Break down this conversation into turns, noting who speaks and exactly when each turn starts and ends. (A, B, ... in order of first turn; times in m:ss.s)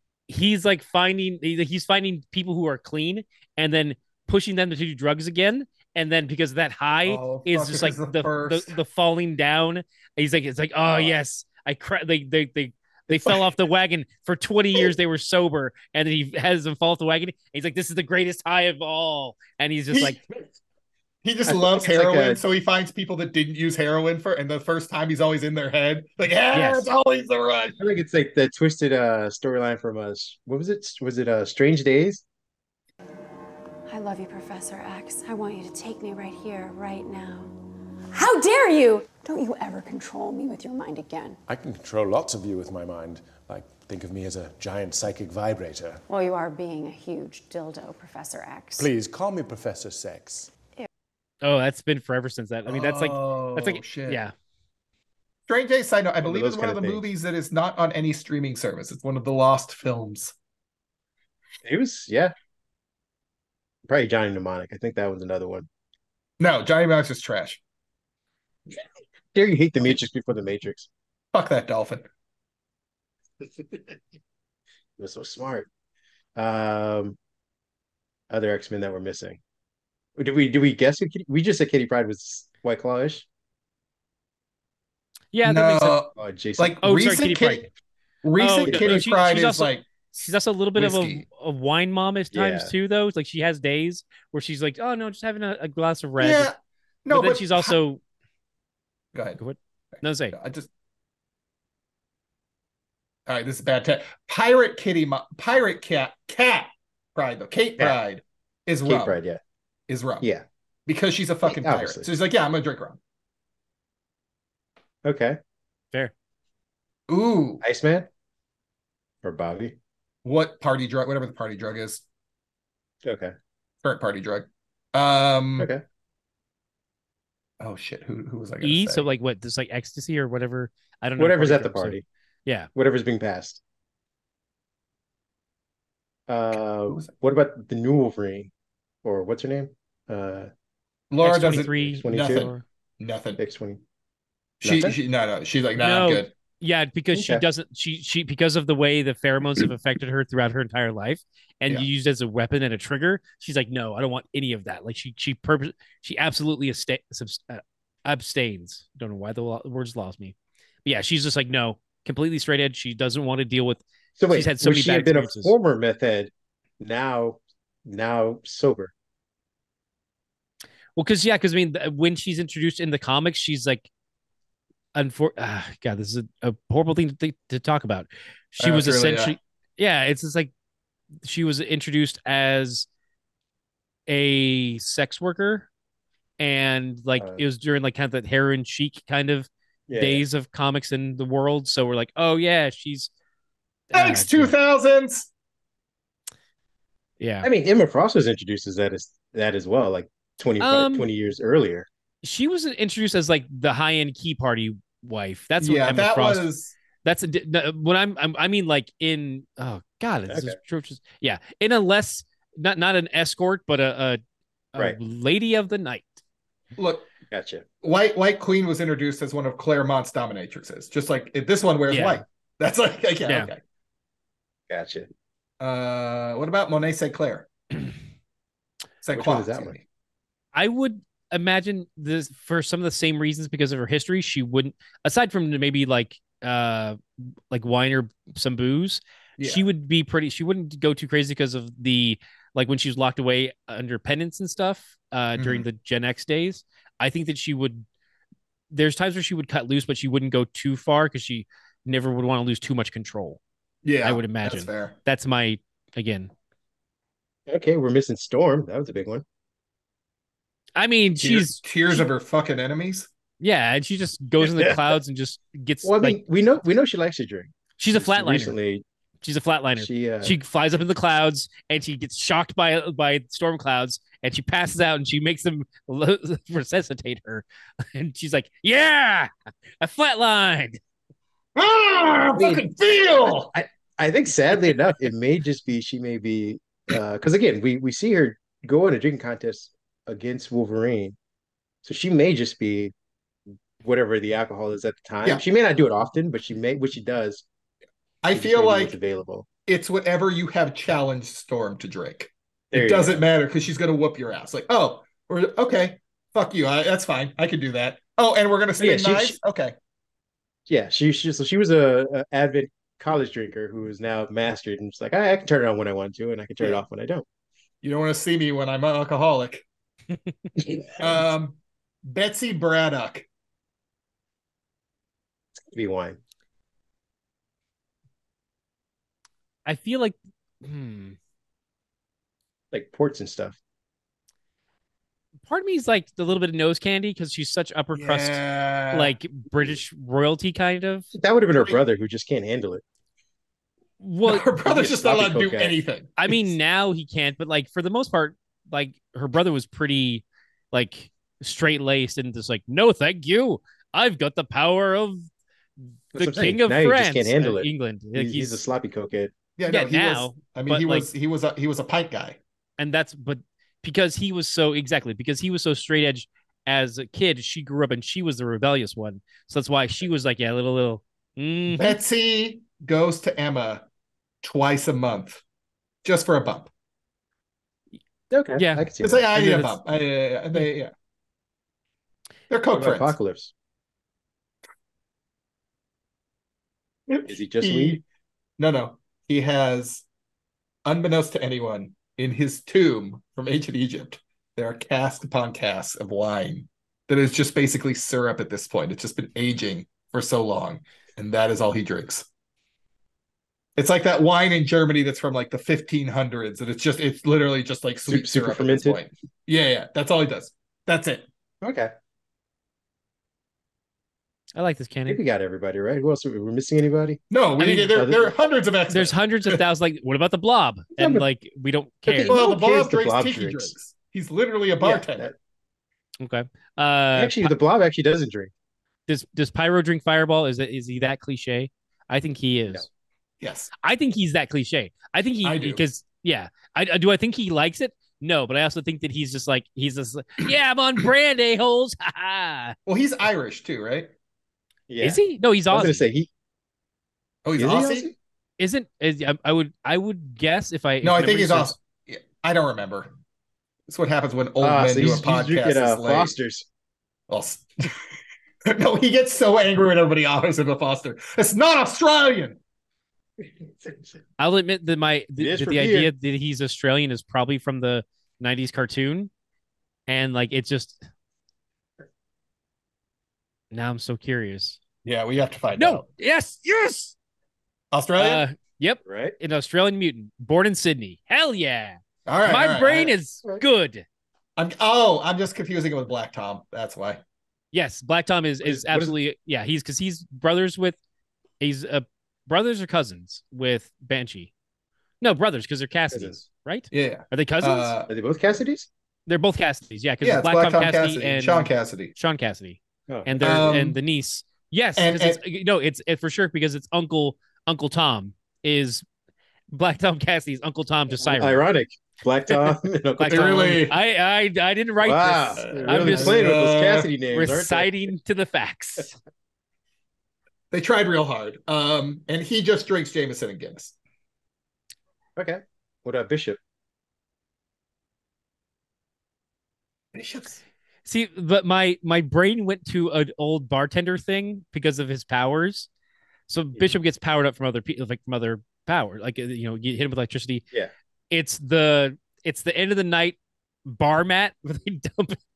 0:00.3-0:20.2 A
0:07.0-0:08.7 B
0:13.1-0:13.4 C
0:19.9-0:20.4 B
0:21.2-0:27.8 B
0:21.4-0:22.4 C
0:26.5-0:26.9 A
0:27.8-0:32.2 C
0:33.9-0:37.5 D
0:38.1-0:41.4 D
0:41.5-0:46.0 E
0:46.1-0:48.9 D
0:48.7-0:50.5 E
0:51.4-0:54.3 A
0:52.6-0:54.2 B
0:55.5-1:00.3 B
0:56.2-0:57.0 C
1:01.6-1:02.3 C
1:03.8-1:05.7 C
1:06.4-1:07.6 B
1:09.3-1:10.9 C
1:11.3-1:12.0 B
1:15.0-1:15.7 C
1:16.4-1:17.2 C
1:18.3-1:19.4 C
1:20.2-1:23.2 C
1:25.3-1:26.0 A
1:25.4-1:27.7 B
1:26.2-1:26.8 C
1:26.8-1:27.7 A
1:28.2-1:29.8 B
1:28.4-1:36.5 A
1:28.6-1:29.0 C
1:30.8-1:31.2 B
1:32.3-1:32.7 C
1:36.2-1:36.5 B
1:37.0-1:37.7 B
1:37.1-1:38.0 A
1:39.1-1:39.4 B
1:39.4-1:40.3 A
1:40.0-1:40.7 B
1:43.3-1:49.2 B
1:48.8-1:49.4 C
1:49.9-1:50.2 B
1:50.9-1:53.0 B
1:51.4-1:52.1 C
1:55.0-1:55.4 C
1:57.1-1:57.6 B
1:57.6-1:58.1 C
1:59.2-1:59.8 C
2:00.2-2:02.0 B
2:03.0-2:03.3 C
2:03.8-2:05.7 B
2:05.6-2:05.8 C
2:07.6-2:09.1 B
2:08.6-2:12.7 A
2:11.2-2:12.0 C
2:12.7-2:13.6 C
2:16.3-2:18.5 C
2:19.0-2:20.5 C
2:21.1-2:23.4 B
2:21.2-2:22.6 A
2:21.6-2:22.5 C
2:23.4-2:23.8 C
2:24.6-2:26.3 B
2:24.6-2:25.0 C
2:25.8-2:40.3 A
2:27.1-2:27.4 C
2:40.8-2:45.5 A
2:44.2-2:48.9 C
2:51.0-2:53.9 A
2:54.9-3:00.5 A
2:58.6-2:59.4 B
3:01.2-3:02.9 A
3:04.1-3:05.7 A
3:06.4-3:13.1 A
3:09.9-3:10.2 C
3:13.9-3:14.5 A
3:13.9-3:15.3 B
3:17.2-3:17.5 A
3:17.4-3:21.9 C
3:20.6-3:21.1 A
3:22.2-3:26.5 A
3:25.6-3:26.7 B
3:27.0-3:34.2 A
3:30.3-3:30.6 C
3:34.7-3:36.2 A
3:36.8-3:37.1 B
3:37.3-3:37.6 C
3:37.8-3:43.6 B
3:41.9-3:42.2 A
3:44.7-3:45.1 C
3:45.6-3:47.5 B
3:49.0-3:49.8 B
3:49.1-3:49.7 C
3:50.5-3:57.0 A
3:57.5-4:07.8 A
3:59.4-3:59.6 B
4:05.4-4:05.6 B
4:08.7-4:13.4 A
4:13.8-4:14.9 B
4:14.0-4:16.3 A
4:17.5-4:19.2 C
4:20.8-4:22.0 A
4:21.2-4:23.1 B
4:23.4-4:26.2 A
4:24.4-4:24.9 C
4:25.8-4:28.8 C
4:27.8-4:28.6 A
4:29.2-4:40.8 A
4:29.8-4:30.4 C
4:41.6-4:43.5 B
4:42.4-4:51.2 C
4:51.8-4:52.9 C
4:53.8-4:57.4 C
4:58.2-4:59.0 B
4:58.3-4:59.5 C
4:59.6-5:09.7 B
5:02.7-5:03.2 C
5:08.8-5:09.4 C
5:10.7-5:17.2 C
5:17.8-5:19.6 B
5:21.0-5:23.2 B
5:25.6-5:26.2 C
5:29.6-5:31.2 A
5:32.7-5:33.6 C
5:35.4-5:41.1 A
5:37.9-5:39.1 B
5:41.1-5:42.8 C
5:44.0-5:44.5 A
5:44.2-5:46.5 B
5:44.6-5:45.8 C
5:46.2-5:55.2 A
5:56.1-5:58.6 A
5:56.1-5:59.3 C
5:59.6-6:02.4 B
5:59.7-6:01.1 A
6:02.8-6:12.0 A
6:11.7-6:13.8 B
6:14.4-6:15.4 B
6:16.0-6:16.7 B
6:18.3-6:19.3 C
6:18.6-6:19.8 A
6:19.0-6:20.9 B
6:22.5-6:23.2 B
6:22.7-6:23.5 C
6:27.1-6:28.0 B
6:27.3-6:28.0 C
6:28.6-6:30.0 B
6:30.8-6:42.3 B
6:43.8-6:51.2 B
6:48.0-6:49.0 C
6:51.6-6:51.9 C
6:54.6-6:55.2 A
6:55.1-6:58.3 C
6:57.3-6:59.6 B
6:58.9-7:02.4 A
7:01.0-7:01.2 C
7:02.0-7:03.7 C
7:02.2-7:05.3 B
7:04.8-7:05.3 C
7:06.2-7:07.5 A
7:07.1-7:08.5 C
7:09.1-7:12.8 A
7:13.4-7:13.7 B
7:13.8-7:22.7 A
7:15.4-7:15.8 B
7:22.9-7:24.1 B
7:24.9-7:26.3 C
7:25.0-7:26.0 A
7:27.4-7:28.1 B
7:27.6-7:28.1 C
7:28.6-7:31.7 A
7:31.0-7:33.1 B
7:33.9-7:36.3 B
7:34.6-7:36.6 C
7:37.3-7:37.9 B
7:38.6-7:42.6 B
7:43.8-7:44.1 C
7:44.4-7:49.3 A
7:45.4-7:46.1 C
7:50.1-7:51.0 A
7:53.7-7:54.8 A
7:55.0-7:56.0 B
7:55.8-7:57.1 A
7:57.9-7:58.4 B
7:58.2-8:04.0 A
7:59.0-7:59.3 C
8:02.2-8:03.1 B
8:04.6-8:07.2 B
8:07.7-8:11.0 A
8:08.6-8:09.1 C
8:11.6-8:14.5 A
8:15.2-8:17.9 A
8:16.1-8:16.4 C
8:16.9-8:18.1 B
8:18.1-8:18.9 C
8:19.3-8:29.0 A
8:20.2-8:22.1 B
8:23.1-8:23.7 C
8:23.4-8:24.0 B
8:25.0-8:25.4 B
8:29.7-8:31.6 A
8:31.2-8:33.8 C
8:32.5-8:36.5 A
8:33.3-8:33.9 B
8:35.0-8:37.9 C
8:35.6-8:37.1 B
8:37.3-8:39.1 A
8:40.7-8:43.9 B
8:45.4-8:46.6 C
8:50.1-8:50.6 B
8:51.0-8:55.9 A
8:56.5-9:00.6 A
9:01.3-9:05.4 A